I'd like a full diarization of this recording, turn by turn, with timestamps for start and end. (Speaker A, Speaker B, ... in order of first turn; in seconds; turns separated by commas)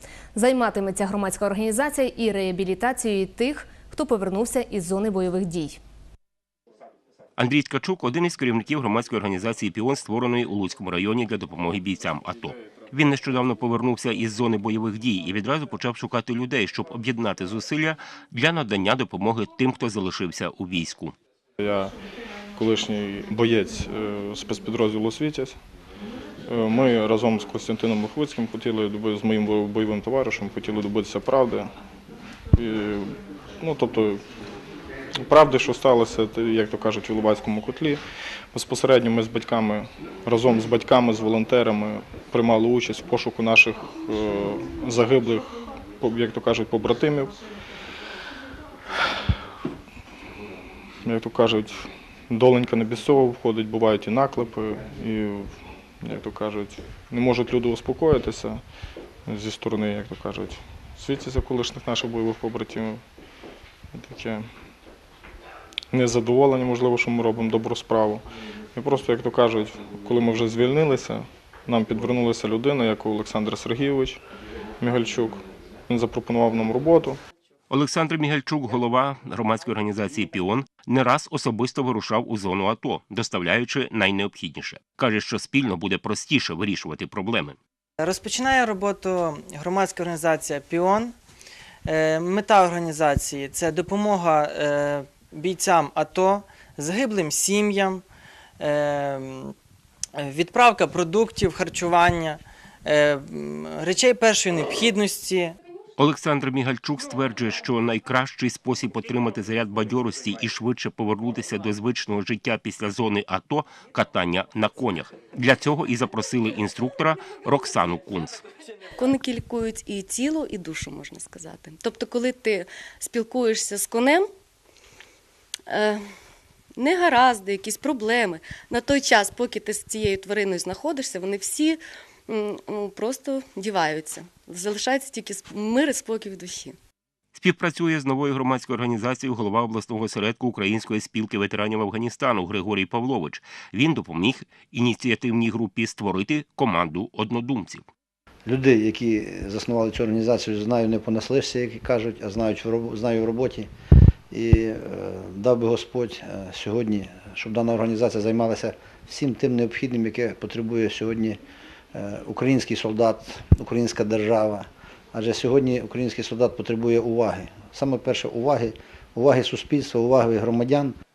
Speaker A: 0.3-5.8, Speaker B: 7.4-21.1, Speaker C: 21.6-21.9, Speaker C: 22.6-25.6, Speaker C: 26.5-31.7, Speaker C: 32.5-34.2, Speaker C: 35.2-38.0, Speaker C: 38.5-47.4, Speaker C: 51.0-58.6, Speaker C: 59.3-63.0, Speaker C: 63.9-64.5, Speaker C: 65.9-68.2, Speaker C: 68.8-74.2, Speaker C: 74.8-77.2, Speaker B: 77.7-87.6, Speaker D: 88.0-91.1, Speaker D: 91.9-98.0, Speaker D: 98.6-99.5, Speaker D: 100.2-105.5, Speaker B: 106.0-118.4, Speaker E: 119.0-124.3, Speaker E: 125.7-126.0, Speaker E: 126.8-136.8, Speaker B: 137.3-147.9, Speaker F: 148.5-153.7, Speaker F: 154.3-161.4, Speaker F: 161.9-170.9